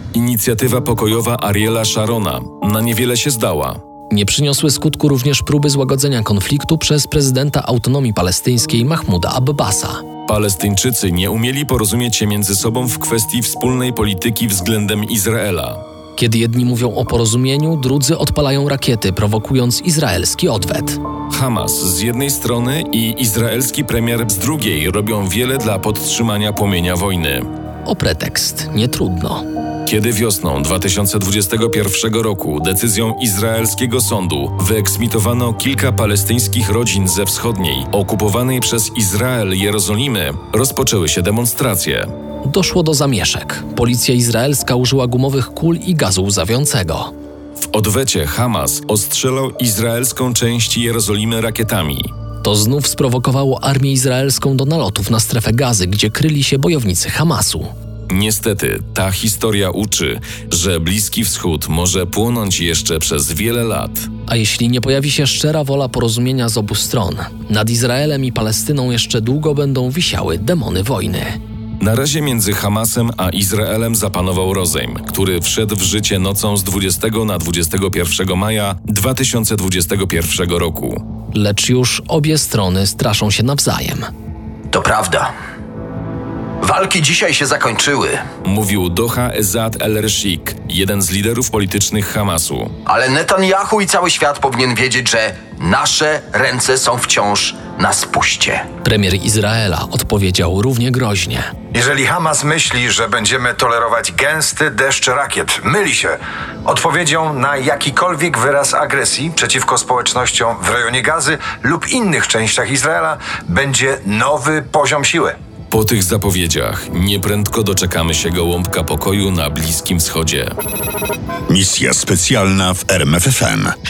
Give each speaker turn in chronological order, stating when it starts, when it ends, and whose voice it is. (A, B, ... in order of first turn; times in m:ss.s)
0:00.1-0:03.8 A
0:04.1-0:10.0 B
0:10.3-0:15.8 A
0:16.2-0:21.0 B
0:21.3-0:27.5 A
0:27.8-0:29.4 B
0:29.8-0:42.1 A
0:42.4-0:47.1 B
0:47.6-0:52.1 A
0:52.4-0:57.7 B
0:58.1-1:04.1 A
1:04.3-1:11.4 B
1:11.8-1:21.0 A
1:21.3-1:24.1 B
1:24.7-1:25.3 C
1:26.6-1:28.2 C
1:28.4-1:32.7 A
1:32.8-1:38.6 C
1:38.8-1:41.5 B
1:41.7-1:55.3 D
1:55.7-2:00.5 A
2:01.5-2:03.7 E